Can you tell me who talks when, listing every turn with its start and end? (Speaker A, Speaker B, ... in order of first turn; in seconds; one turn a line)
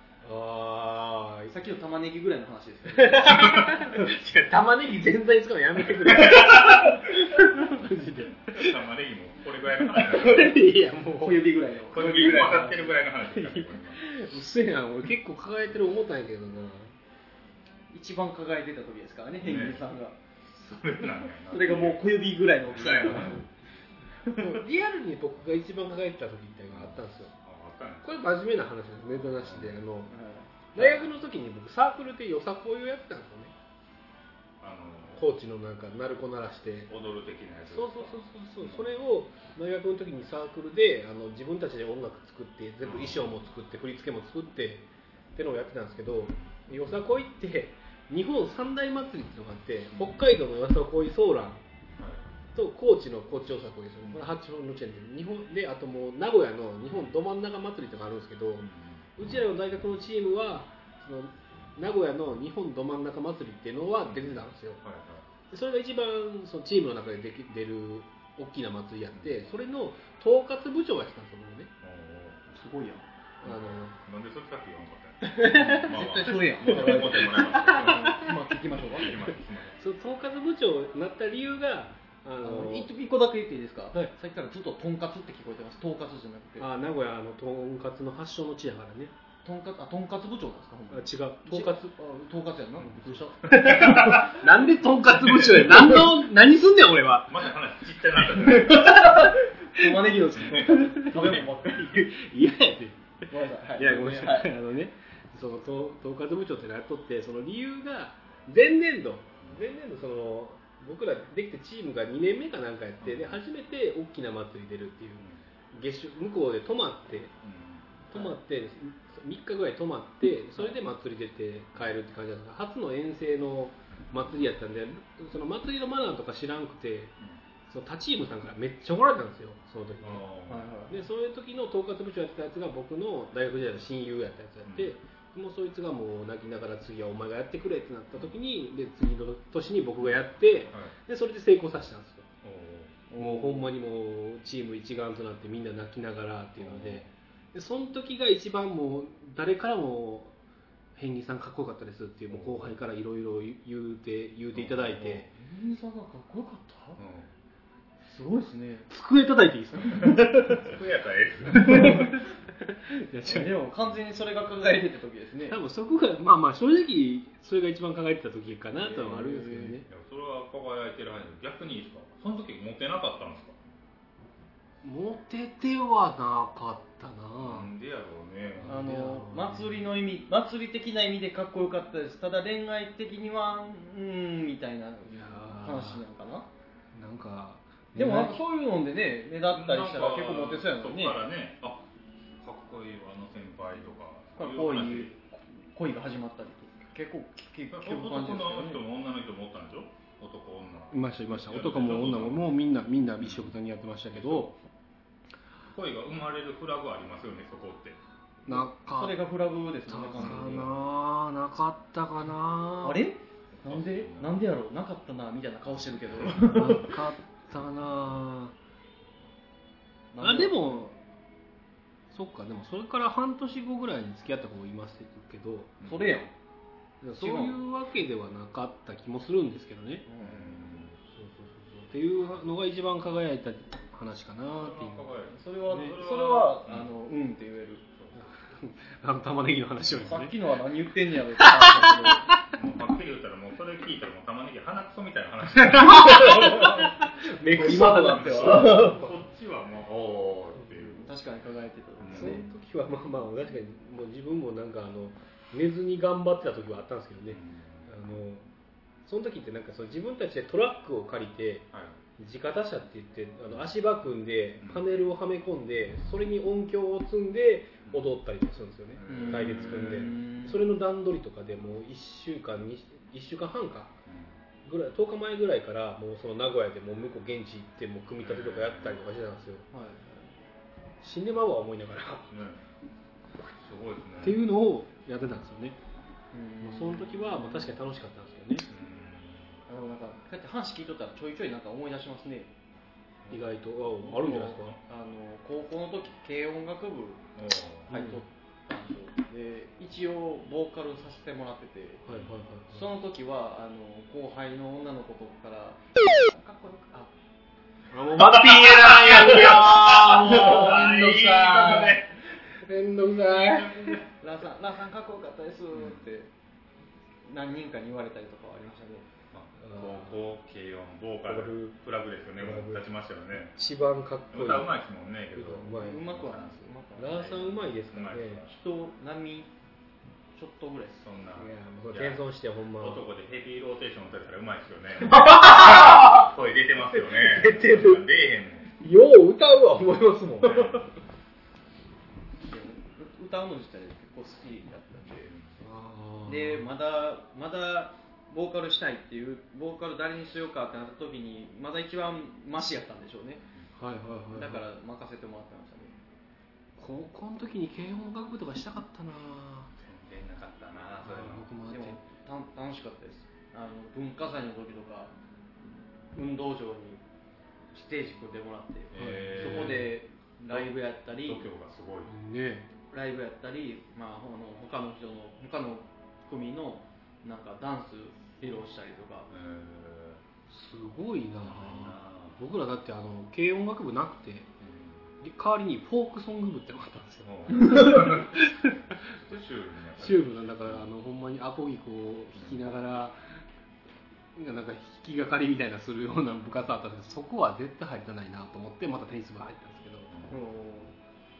Speaker A: 0.2-1.5
Speaker B: 1.5-4.1
Speaker A: 3.0-8.8
Speaker C: 6.0-6.9
Speaker C: 8.5-10.7
Speaker A: 9.9-12.2
Speaker B: 10.2-10.5
Speaker B: 11.2-12.9
Speaker C: 11.9-14.1
Speaker A: 13.3-16.9
Speaker B: 17.9-20.2
Speaker C: 19.4-19.8
Speaker C: 20.5-22.0
Speaker B: 21.5-23.5
Speaker C: 22.7-23.4
Speaker B: 24.2-24.6
Speaker A: 24.3-27.3
Speaker C: 26.7-28.1
Speaker A: 28.0-30.1
Speaker C: 29.4-29.7
Speaker B: 30.1-31.1
Speaker A: 30.7-33.5
Speaker C: 34.6-35.2
Speaker A: 35.2-36.9
Speaker C: 36.9-38.9
Speaker A: 37.7-51.6
Speaker C: 42.8-43.3
Speaker C: 52.0-52.2
Speaker A: 52.5-64.8
Speaker C: 58.6-59.1
Speaker C: 64.0-65.2
Speaker A: 65.5-71.7
Speaker C: 71.8-72.5
Speaker B: 72.5-73.0
Speaker A: 73.4-74.0
Speaker C: 73.4-78.4
Speaker B: 75.2-79.3
Speaker A: 75.4-78.3
Speaker C: 78.9-79.8
Speaker A: 79.3-82.9
Speaker B: 82.4-86.7
Speaker A: 86.6-89.1
Speaker B: 89.4-94.2
Speaker A: 90.9-91.9
Speaker A: 93.5-97.5
Speaker C: 93.7-94.3
Speaker C: 97.3-99.1
Speaker A: 98.4-103.0
Speaker B: 98.7-101.9
Speaker B: 103.3-104.5
Speaker A: 103.8-117.3
Speaker C: 113.0-113.3
Speaker C: 117.4-117.9
Speaker A: 118.1-127.1
Speaker A: 127.7-130.2
Speaker C: 130.0-130.6
Speaker B: 130.5-130.9
Speaker A: 130.9-142.3
Speaker C: 134.6-134.9
Speaker C: 140.0-140.9
Speaker C: 142.4-143.0
Speaker B: 143.1-143.7
Speaker A: 143.2-150.3
Speaker C: 146.6-147.1
Speaker A: 150.9-155.3
Speaker C: 152.3-152.7
Speaker C: 154.5-155.2
Speaker B: 155.3-157.0
Speaker C: 157.0-157.3
Speaker B: 158.0-158.9
Speaker A: 158.9-160.6
Speaker B: 159.9-160.3
Speaker C: 160.4-162.1
Speaker A: 161.5-163.5
Speaker B: 161.7-162.2
Speaker B: 163.2-165.6
Speaker A: 165.5-169.8
Speaker B: 168.7-169.8
Speaker C: 169.9-173.6
Speaker A: 174.8-177.7
Speaker C: 177.4-178.8
Speaker A: 178.6-179.9
Speaker B: 178.7-186.5
Speaker A: 185.1-186.0
Speaker A: 186.9-188.4
Speaker B: 187.9-191.2
Speaker C: 189.5-191.9
Speaker C: 192.4-195.2
Speaker B: 194.4-198.8
Speaker C: 197.7-202.5
Speaker A: 200.9-204.5
Speaker C: 203.2-203.5
Speaker C: 204.1-204.6
Speaker C: 205.7-208.0
Speaker A: 208.4-209.2
Speaker B: 208.5-210.7
Speaker A: 209.9-213.0
Speaker C: 210.1-210.7
Speaker B: 212.8-216.9
Speaker C: 213.6-214.3
Speaker A: 216.5-218.5
Speaker B: 220.1-220.8
Speaker A: 220.2-221.0
Speaker A: 222.1-225.7
Speaker C: 225.8-226.2
Speaker B: 225.8-226.3
Speaker A: 227.0-230.1
Speaker B: 227.2-227.6
Speaker B: 230.1-230.8
Speaker C: 230.2-231.0
Speaker A: 231.1-235.1
Speaker C: 234.5-236.9
Speaker B: 235.3-237.8
Speaker A: 238.1-240.3
Speaker C: 239.8-240.2
Speaker B: 240.1-242.3
Speaker A: 241.4-242.5
Speaker C: 242.5-246.7
Speaker A: 245.6-249.1
Speaker B: 246.3-246.8
Speaker B: 247.5-249.1
Speaker C: 247.9-251.1
Speaker B: 251.0-252.4
Speaker C: 252.0-252.5
Speaker A: 252.1-258.4
Speaker C: 257.3-257.9
Speaker A: 259.0-261.7
Speaker C: 261.7-262.0
Speaker A: 262.2-273.9
Speaker C: 268.9-270.1
Speaker B: 269.1-270.6
Speaker C: 274.1-274.4
Speaker A: 274.6-279.6
Speaker C: 278.2-279.0
Speaker B: 279.7-280.3
Speaker A: 281.0-282.3
Speaker C: 282.3-282.6
Speaker C: 283.6-284.4
Speaker A: 284.2-285.8
Speaker B: 286.3-287.5
Speaker A: 286.6-288.7
Speaker C: 288.7-289.6
Speaker B: 289.7-292.5
Speaker A: 293.3-294.8
Speaker B: 294.0-297.2
Speaker C: 294.4-294.7
Speaker C: 297.4-297.9
Speaker B: 297.9-302.0
Speaker A: 297.9-298.2
Speaker A: 302.1-302.9
Speaker B: 302.7-307.1
Speaker A: 307.9-314.0
Speaker C: 308.2-312.1
Speaker B: 310.1-311.0
Speaker C: 313.4-314.0
Speaker B: 314.1-316.3
Speaker C: 315.8-316.0
Speaker B: 317.2-319.1
Speaker C: 319.3-323.6
Speaker A: 319.6-320.2
Speaker A: 321.2-321.7
Speaker A: 322.4-322.8
Speaker A: 323.6-324.7
Speaker C: 324.3-326.8
Speaker A: 325.3-326.1
Speaker B: 325.8-327.6
Speaker A: 327.0-328.4
Speaker C: 327.3-328.5
Speaker B: 328.4-329.5
Speaker B: 330.4-331.0
Speaker C: 331.0-332.2
Speaker A: 331.4-333.1
Speaker C: 332.8-338.7
Speaker A: 335.0-336.3
Speaker A: 336.9-338.0
Speaker A: 338.8-340.9
Speaker C: 340.4-340.9
Speaker B: 342.4-345.3
Speaker C: 345.3-345.6
Speaker A: 345.6-346.7
Speaker B: 346.3-353.4
Speaker A: 353.8-354.6
Speaker B: 354.3-355.9
Speaker A: 356.8-359.7
Speaker C: 359.8-361.5
Speaker A: 361.0-362.0
Speaker B: 361.7-365.1
Speaker B: 366.1-367.0
Speaker B: 367.7-371.5
Speaker C: 368.9-369.9
Speaker A: 369.0-369.9
Speaker C: 370.5-372.1
Speaker A: 372.1-372.7
Speaker B: 372.9-379.3
Speaker C: 379.3-380.2
Speaker A: 380.5-384.5
Speaker C: 381.4-382.4
Speaker C: 384.6-385.1
Speaker A: 385.2-389.1
Speaker C: 387.2-390.9
Speaker A: 390.0-393.4
Speaker C: 392.4-392.6
Speaker A: 394.3-400.1
Speaker C: 400.1-400.4
Speaker B: 400.3-400.9